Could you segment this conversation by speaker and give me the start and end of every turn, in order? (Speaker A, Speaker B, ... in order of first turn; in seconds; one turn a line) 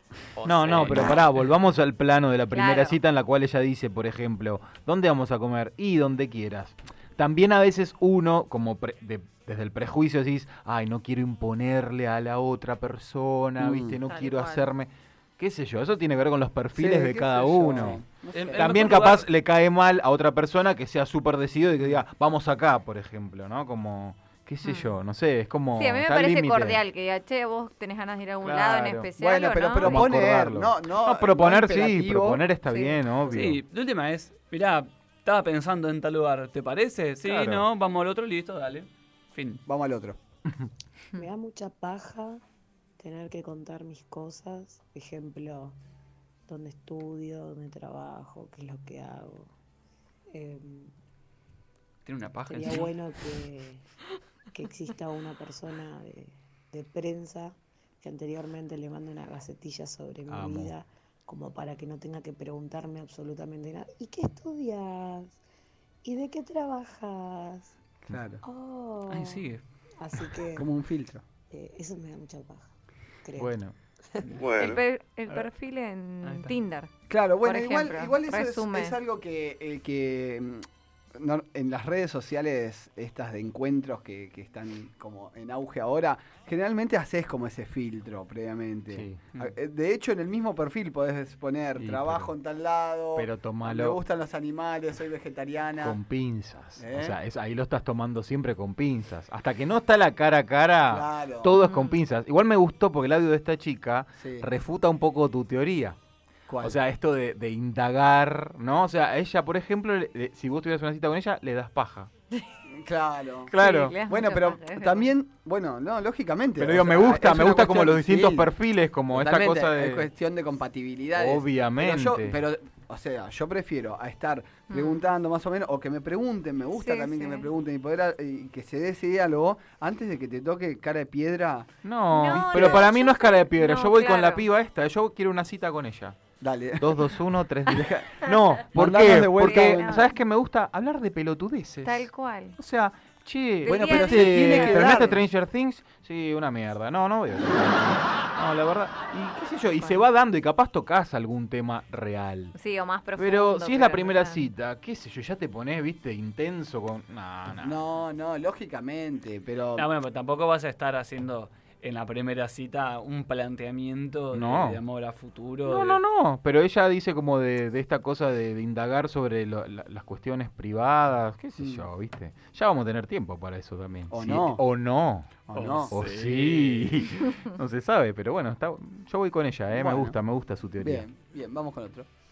Speaker A: 0.4-1.2
Speaker B: 0.5-18.0
Speaker C: 2.5-3.0
Speaker D: 13.6-14.0
Speaker C: 14.1-14.7
Speaker D: 16.8-19.1
Speaker A: 18.3-19.3
Speaker B: 18.6-26.8
Speaker C: 24.6-24.9
Speaker C: 25.8-30.0
Speaker B: 28.4-29.1
Speaker D: 29.2-32.5
Speaker B: 29.8-33.6
Speaker C: 32.7-33.0
Speaker A: 33.3-39.6
Speaker B: 37.2-37.7
Speaker D: 39.7-40.2
Speaker E: 41.1-42.4
Speaker E: 43.0-45.8
Speaker E: 46.5-49.5
Speaker E: 50.3-51.0
Speaker A: 52.0-52.9
Speaker E: 52.5-53.9
Speaker E: 54.5-65.4
Speaker B: 60.3-60.7
Speaker E: 66.0-67.8
Speaker D: 68.0-68.4
Speaker E: 68.4-69.4
Speaker A: 69.1-69.6
Speaker E: 70.0-70.7
Speaker D: 70.6-71.2
Speaker E: 71.5-72.7
Speaker E: 73.2-73.6
Speaker B: 73.4-73.8
Speaker A: 74.2-74.6
Speaker C: 74.6-76.9
Speaker A: 76.2-76.5
Speaker D: 77.1-96.0
Speaker C: 77.4-79.0
Speaker B: 88.9-89.2
Speaker B: 91.8-92.3
Speaker B: 93.2-94.0
Speaker B: 95.8-106.0
Speaker D: 96.8-97.2
Speaker D: 100.9-101.5
Speaker C: 101.5-102.0
Speaker D: 104.2-104.5
Speaker D: 106.5-106.8
Speaker B: 106.6-112.1
Speaker D: 112.8-118.5
Speaker B: 113.5-114.0
Speaker C: 113.6-115.1
Speaker B: 116.6-120.1
Speaker D: 119.1-131.7
Speaker B: 121.2-122.4
Speaker C: 124.7-125.0
Speaker C: 126.8-127.5
Speaker B: 131.8-136.2
Speaker C: 132.1-134.4
Speaker D: 132.4-132.8
Speaker D: 136.4-137.1
Speaker B: 136.8-152.5
Speaker D: 137.7-138.1
Speaker D: 138.7-140.1
Speaker C: 139.4-140.1
Speaker C: 141.8-142.6
Speaker C: 143.6-145.0
Speaker D: 143.7-145.3
Speaker C: 152.6-154.4
Speaker B: 153.2-157.8
Speaker D: 157.6-159.9
Speaker A: 159.8-166.0
Speaker B: 164.3-164.8
Speaker B: 165.7-181.1
Speaker D: 171.6-171.9
Speaker D: 174.1-174.6
Speaker D: 175.5-175.9
Speaker A: 175.5-177.1
Speaker D: 179.7-180.2
Speaker D: 180.8-182.1